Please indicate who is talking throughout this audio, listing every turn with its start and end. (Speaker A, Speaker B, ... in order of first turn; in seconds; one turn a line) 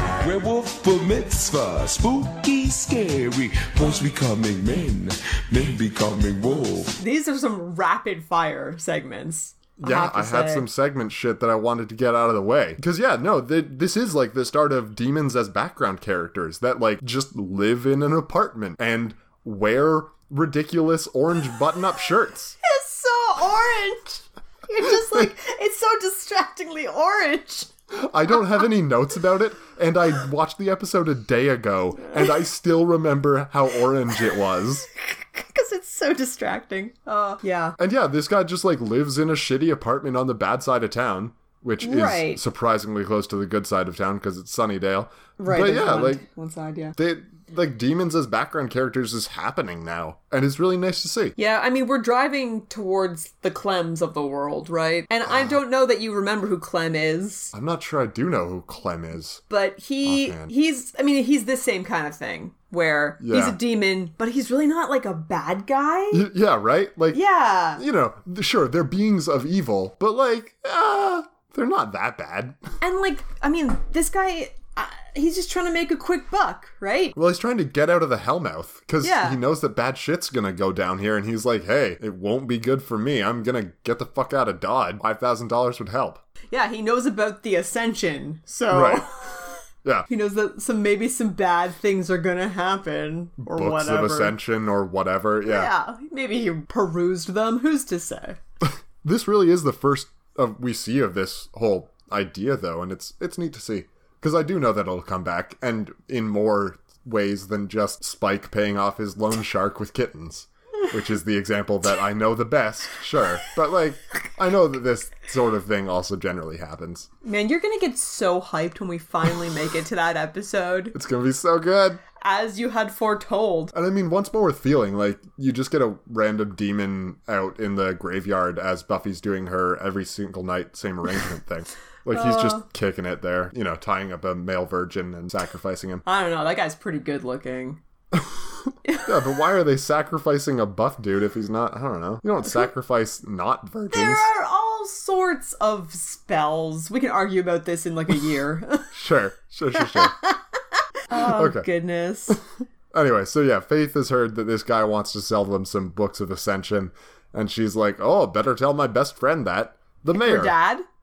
Speaker A: 0.2-7.0
Speaker B: 7.0-10.7
Speaker C: 9.8-22.6
Speaker B: 22.6-27.7
Speaker C: 27.9-34.9
Speaker B: 35.0-37.8
Speaker C: 37.8-46.2
Speaker B: 41.8-42.4
Speaker B: 45.4-47.0
Speaker C: 47.0-51.4
Speaker B: 51.4-57.5
Speaker C: 55.3-55.6
Speaker C: 57.5-59.4
Speaker B: 59.5-66.3
Speaker C: 60.0-60.5
Speaker C: 63.2-63.6
Speaker C: 66.1-67.2
Speaker B: 67.1-67.8
Speaker C: 67.8-72.6
Speaker B: 72.8-77.2
Speaker C: 77.2-86.2
Speaker B: 79.0-79.4
Speaker B: 86.5-89.6
Speaker C: 88.7-89.0
Speaker B: 90.1-94.3
Speaker C: 93.4-95.7
Speaker B: 95.5-98.4
Speaker C: 98.6-117.1
Speaker B: 117.2-121.0
Speaker C: 120.9-122.0
Speaker B: 122.2-123.7
Speaker C: 123.7-136.0
Speaker B: 132.1-132.6
Speaker B: 136.1-137.8
Speaker C: 138.1-144.3
Speaker B: 138.9-139.1
Speaker B: 143.9-148.9
Speaker C: 148.9-150.2
Speaker B: 149.8-150.2
Speaker B: 151.1-152.4
Speaker C: 151.1-151.7
Speaker C: 152.9-160.6
Speaker B: 160.1-160.9